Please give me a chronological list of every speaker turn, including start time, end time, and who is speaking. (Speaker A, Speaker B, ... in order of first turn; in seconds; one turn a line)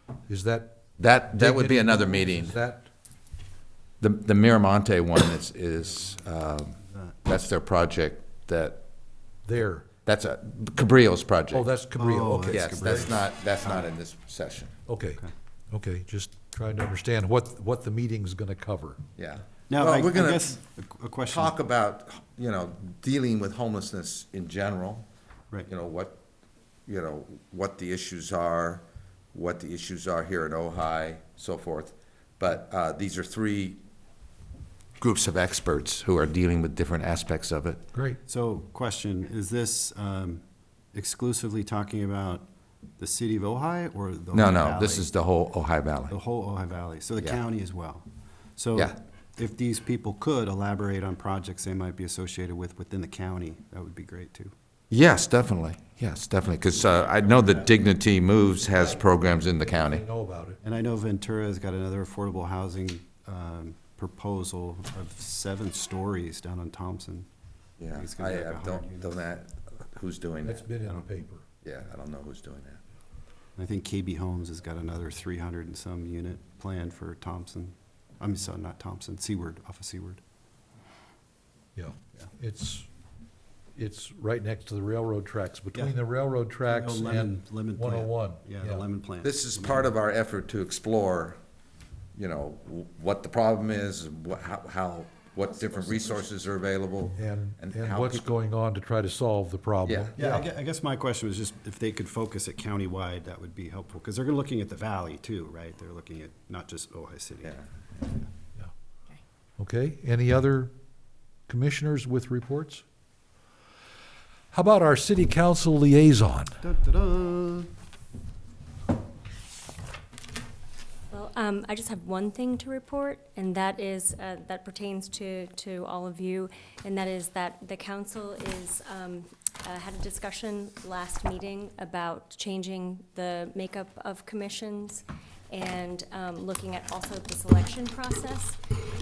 Speaker A: 0.3-2.9
Speaker B: 1.0-2.6
Speaker B: 4.0-8.8
Speaker C: 6.8-7.2
Speaker A: 9.5-9.9
Speaker B: 10.1-11.7
Speaker A: 11.5-13.2
Speaker C: 12.0-13.9
Speaker B: 12.5-14.7
Speaker A: 14.9-19.0
Speaker B: 19.2-20.6
Speaker C: 19.7-21.6
Speaker B: 21.3-25.1
Speaker B: 25.7-26.2
Speaker B: 26.9-33.8
Speaker B: 35.0-37.8
Speaker A: 37.9-38.2
Speaker C: 38.3-42.5
Speaker C: 43.0-45.1
Speaker B: 44.3-46.2
Speaker C: 46.1-54.5
Speaker B: 54.9-60.0
Speaker C: 56.8-57.8
Speaker A: 58.6-60.6
Speaker C: 60.6-67.3
Speaker B: 67.8-70.7
Speaker C: 67.9-69.1
Speaker A: 70.4-71.5
Speaker B: 71.6-72.8
Speaker C: 73.6-80.2
Speaker A: 81.8-82.9
Speaker A: 83.8-88.8
Speaker C: 86.7-89.9
Speaker B: 89.2-91.4
Speaker B: 92.2-98.3
Speaker A: 97.2-100.4
Speaker B: 99.9-100.2
Speaker C: 100.2-107.6
Speaker B: 107.4-108.1
Speaker A: 109.6-110.7
Speaker A: 111.5-112.8
Speaker A: 114.5-116.6
Speaker C: 116.6-117.7
Speaker D: 121.1-138.6